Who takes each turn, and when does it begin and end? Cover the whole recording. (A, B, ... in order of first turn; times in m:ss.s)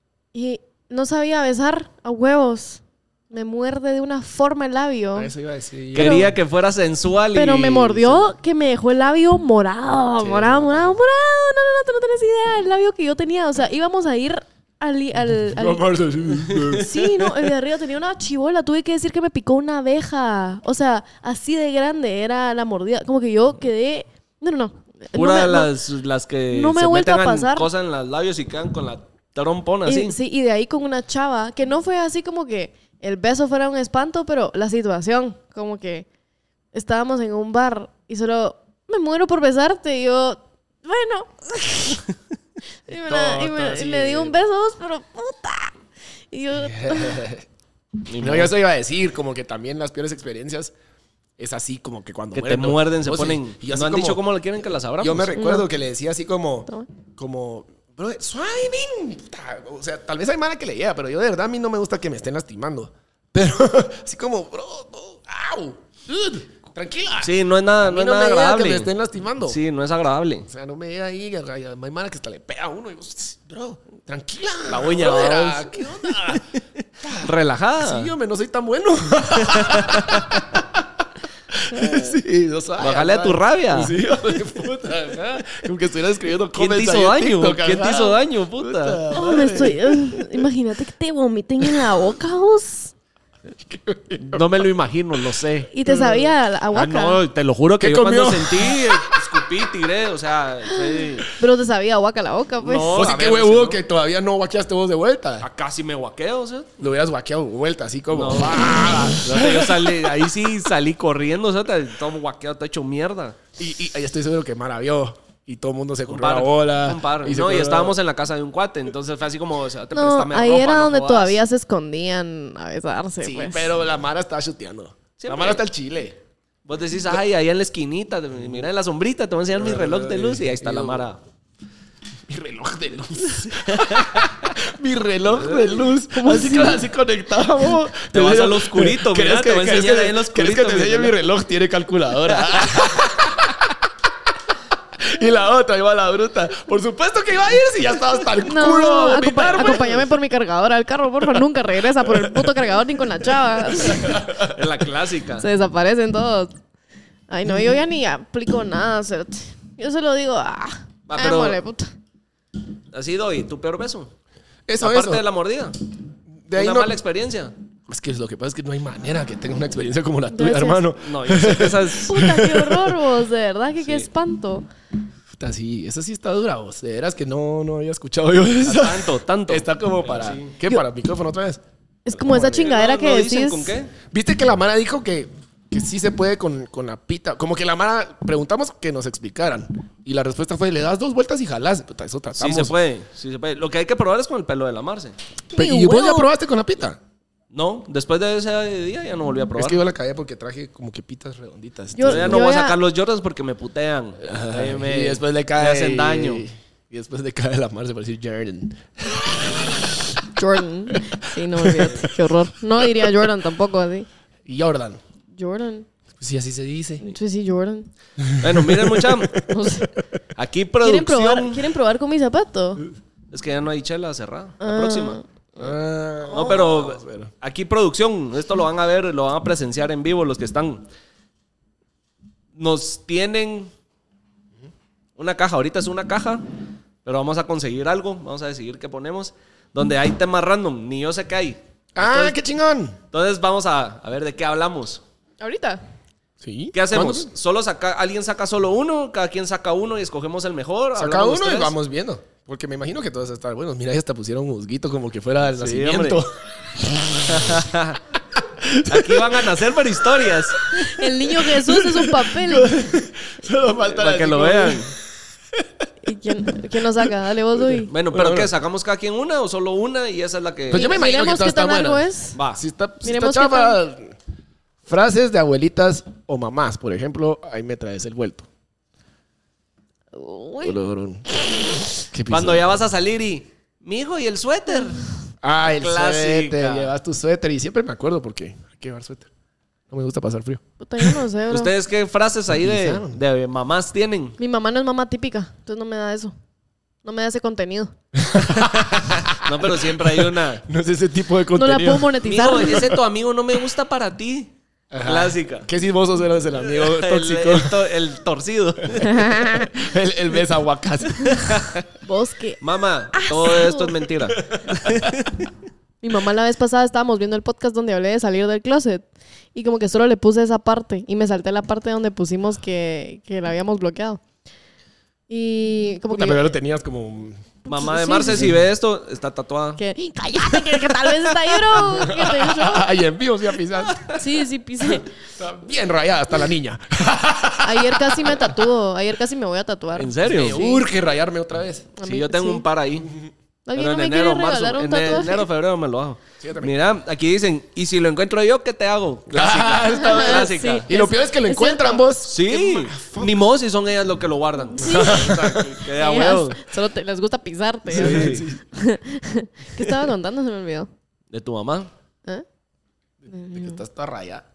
0:00.3-0:05.3 A
0:05.2-0:06.3 B
0:05.9-0:08.3 C
0:06.0-0:06.3 A
0:07.3-0:15.8 A
0:10.2-0:10.8 B
0:15.5-0:17.0 B
0:16.5-0:16.8 C
0:16.8-0:25.7 A
0:25.2-0:30.2 C
0:26.5-0:27.7 A
0:29.8-0:36.1 A
0:36.7-0:42.1 A
0:42.9-0:45.8 A
0:43.1-0:44.4 B
0:46.3-0:47.3 A
0:46.6-0:47.5 B
0:48.1-0:48.5 C
0:48.2-0:50.7 B
0:51.4-0:54.2 B
0:52.3-0:55.4 C
0:55.0-1:09.6 B
0:55.4-0:55.7 A
1:07.2-1:08.9 C
1:09.4-1:10.5 C
1:10.5-1:16.4 B
1:14.7-1:18.1 C
1:17.0-1:20.8 B
1:19.4-1:20.4 C
1:21.5-1:30.4 B
1:22.8-1:24.0 C
1:26.5-1:29.1 C
1:29.1-1:32.9 A
1:33.6-1:34.5 B
1:34.2-1:35.7 C
1:35.7-1:37.2 A
1:35.9-1:36.3 B
1:36.7-1:41.3 C
1:37.8-1:39.2 B
1:40.7-1:43.0 A
1:42.6-1:43.8 C
1:42.9-1:45.5 B
1:45.4-1:46.7 C
1:46.8-1:50.3 B
1:48.1-1:53.4 C
1:53.6-1:58.0 B
1:56.1-2:01.4 C
1:59.9-2:03.7 A
2:03.2-2:06.2 B
2:05.2-2:05.6 C
2:06.7-2:11.2 C
2:09.6-2:11.0 B
2:12.3-2:23.9 B
2:13.4-2:14.6 C
2:15.4-2:15.8 C
2:16.1-2:16.8 A
2:18.1-2:21.2 C
2:22.4-2:23.1 C
2:25.0-2:30.1 B
2:28.5-2:34.2 A
2:31.9-2:32.7 B
2:33.4-2:34.6 B
2:34.1-2:35.5 C
2:35.4-2:36.5 A
2:37.3-2:41.9 A
2:37.5-2:37.8 B
2:41.1-2:41.6 C
2:42.9-2:44.1 C
2:44.7-2:45.3 B
2:44.8-2:45.8 C
2:46.5-2:47.0 B
2:46.6-2:47.5 C
2:47.9-2:53.0 B
2:50.3-2:50.8 A
2:51.0-2:52.2 C
2:52.0-2:54.7 A
2:53.8-2:54.1 C
2:55.4-3:01.6 B
2:58.6-3:00.6 C
3:02.1-3:03.7 A
3:02.2-3:02.7 B
3:02.4-3:04.0 C
3:04.0-3:12.8 B
3:12.4-3:15.2 C
3:15.5-3:17.0 B
3:15.5-3:16.3 A
3:17.5-3:19.8 C
3:19.6-3:22.4 B
3:22.0-3:22.8 A
3:22.0-3:26.4 C
3:24.2-3:30.2 B
3:30.4-3:34.1 A
3:31.6-3:32.1 B
3:32.8-3:33.3 B
3:34.5-3:35.0 B
3:35.4-3:35.9 A
3:36.2-3:37.0 B
3:37.0-3:37.9 A
3:38.2-3:39.8 B
3:38.4-3:39.5 C
3:39.5-3:39.9 A
3:40.4-3:41.7 C
3:40.8-3:42.8 A
3:43.3-3:45.2 C
3:44.6-3:45.8 A
3:45.6-3:47.3 B
3:46.3-3:50.8 C
3:52.6-3:53.7 C
3:55.2-3:56.4 C
3:57.0-4:02.4 C
4:02.0-4:03.0 B
4:03.1-4:05.0 C
4:05.4-4:05.8 A
4:06.4-4:07.3 B
4:06.7-4:11.8 C
4:11.0-4:17.7 B
4:15.5-4:16.2 C
4:17.3-4:18.0 C
4:18.5-4:19.5 B
4:18.9-4:20.6 C
4:20.2-4:24.9 B
4:20.7-4:22.7 A
4:23.8-4:24.9 C
4:26.0-4:27.9 A
4:27.6-4:28.5 B
4:27.9-4:31.0 C
4:30.7-4:34.2 B
4:30.7-4:32.4 A
4:32.4-4:32.6 C
4:33.0-4:33.8 A
4:34.9-4:38.5 B
4:40.1-4:40.8 A
4:40.6-4:41.3 B
4:42.0-4:42.7 B
4:42.3-4:45.1 C
4:45.4-4:49.3 B
4:45.6-4:46.9 C
4:49.9-4:51.2 B
4:50.8-4:51.7 A
4:51.5-4:54.4 C
4:52.6-4:53.2 B
4:54.4-4:56.4 A
4:57.0-4:57.9 A
4:58.2-5:02.2 B
4:58.5-5:00.6 C
5:01.6-5:02.9 A
5:02.2-5:04.5 C
5:04.9-5:07.8 B
5:05.0-5:05.7 C
5:06.6-5:09.2 C
5:09.0-5:09.8 A
5:09.3-5:11.8 B
5:11.3-5:11.8 C
5:12.0-5:12.6 A
5:12.6-5:15.5 C
5:13.1-5:14.0 A
5:14.4-5:15.1 B
5:16.0-5:24.2 A
5:25.3-5:26.5 A
5:26.1-5:27.6 B
5:27.7-5:28.6 A
5:27.7-5:29.8 C
5:28.3-5:28.5 B
5:29.8-5:32.9 A
5:30.7-5:31.0 C
5:31.9-5:34.2 B
5:33.9-5:34.2 C
5:34.1-5:35.1 A
5:35.4-5:38.7 B
5:37.6-5:40.9 A
5:40.0-5:40.6 C
5:40.2-5:41.9 B
5:42.0-5:42.6 A
5:42.0-5:43.1 C
5:43.7-5:45.5 A
5:43.8-5:50.9 C
5:46.4-5:46.7 B
5:49.3-5:53.4 B
5:49.8-5:52.1 A
5:52.2-5:56.6 C
5:54.8-6:00.9 A
5:54.8-5:55.8 B
5:57.9-5:58.6 B
5:57.9-5:58.5 C
6:01.3-6:01.9 C
6:03.2-6:04.4 B
6:03.3-6:03.8 A